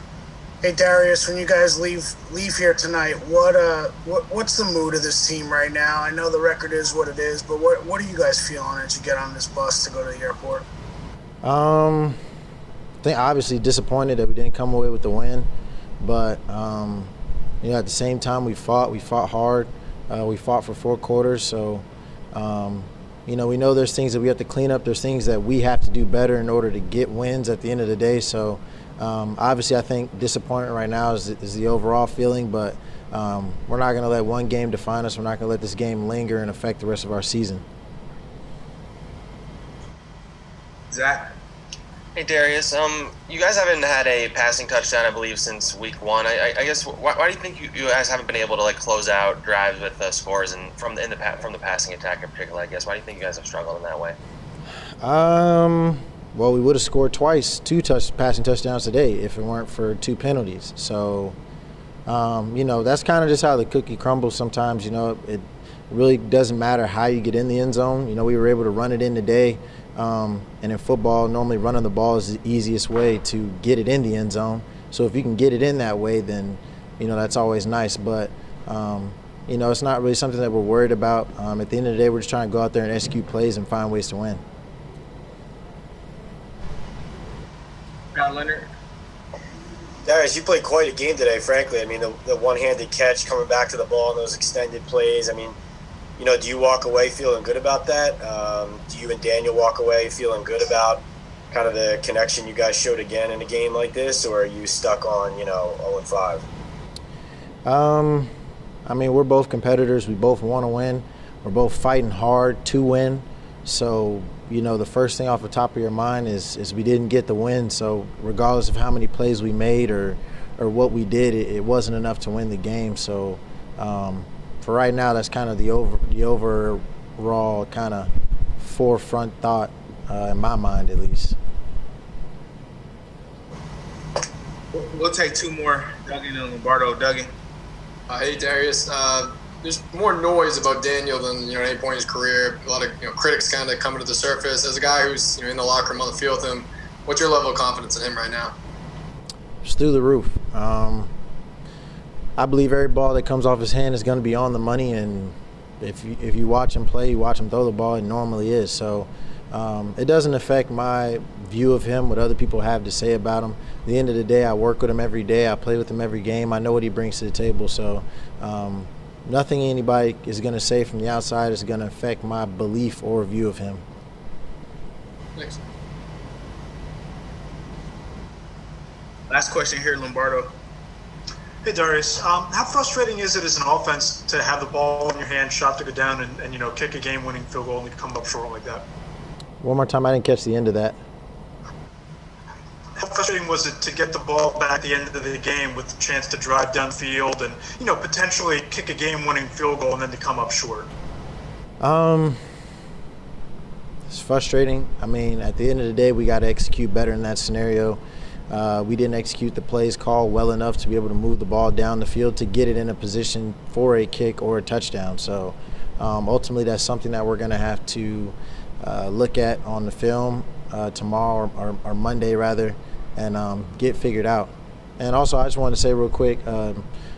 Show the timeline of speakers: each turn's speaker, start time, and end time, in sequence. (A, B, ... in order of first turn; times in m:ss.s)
0:00.6-0:10.6 A
0:11.4-0:12.2 B
0:13.0-0:15.5 B
0:16.0-0:37.6 B
0:40.9-0:41.3 C
0:42.2-0:54.1 D
0:55.0-1:01.4 B
1:02.0-1:24.4 B
1:28.1-1:28.7 C
1:30.0-1:35.6 E
1:36.2-1:46.4 E
1:47.6-1:48.3 B
1:48.8-2:11.4 B
2:14.7-2:17.3 C
2:18.1-2:28.5 F
2:29.6-2:31.1 B
2:32.4-2:53.8 B
2:59.3-3:00.5 C
3:01.6-3:08.8 G
3:09.6-3:11.0 B
3:13.0-3:20.9 G
3:21.8-3:22.4 B
3:24.1-3:46.8 B